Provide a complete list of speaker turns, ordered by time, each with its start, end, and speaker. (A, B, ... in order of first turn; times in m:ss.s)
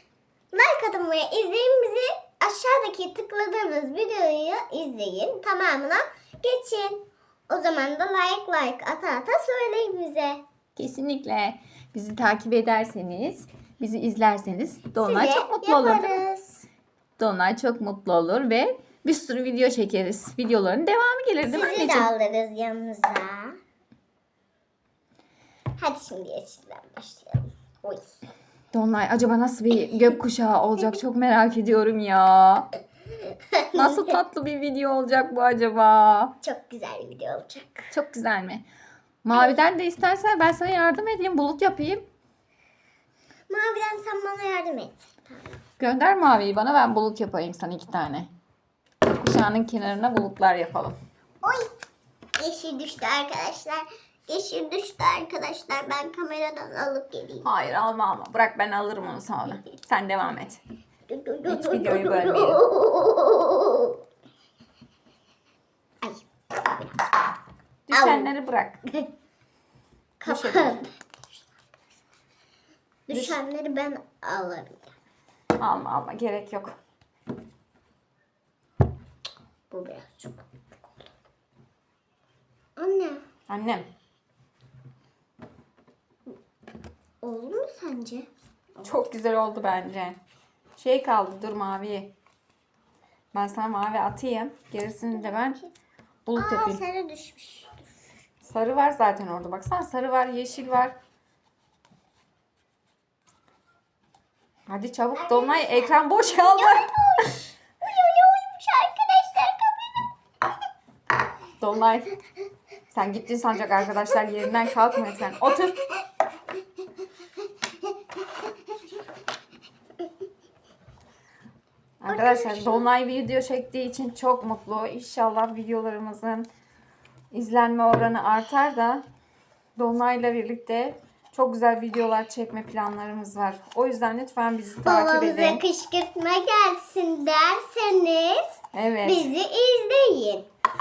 0:00.5-0:10.4 A
0:10.8-0:16.2 B
0:15.0-0:16.6 A
0:17.2-0:22.1 B
0:21.4-0:23.6 A
0:25.8-0:28.0 A
0:28.7-0:32.7 B
0:33.5-0:34.2 A
0:33.7-0:36.3 B
0:36.4-0:37.9 A
0:37.9-0:38.6 B
0:39.2-0:42.0 B
0:43.5-0:45.6 A
0:45.8-0:48.3 B
0:49.1-0:51.0 B
0:51.4-0:51.7 A
0:52.4-0:57.5 A
0:57.4-1:00.6 B
1:01.1-1:04.0 A
1:01.5-1:02.6 B
1:06.0-1:07.3 A
1:07.9-1:08.8 B
1:07.9-1:08.3 A
1:10.2-1:11.0 A
1:10.3-1:10.8 B
1:13.1-1:14.9 A
1:13.1-1:13.4 B
1:15.6-1:16.7 B
1:19.7-1:20.4 A
1:22.8-1:23.2 A
1:23.5-1:23.9 B
1:27.2-1:28.3 A
1:28.8-1:30.2 B
1:30.8-1:32.1 B
1:33.3-1:35.6 B
1:35.2-1:35.7 A
1:36.2-1:36.8 B
1:36.3-1:37.9 A
1:38.4-1:41.0 B
1:44.7-1:46.9 B
1:45.2-1:50.1 A
1:51.6-1:52.1 B
1:52.9-1:55.8 B
2:02.0-2:06.5 B
2:02.1-2:02.8 A
2:07.3-2:09.0 B
2:09.8-2:15.6 B
2:14.8-2:20.5 A
2:18.7-2:19.3 B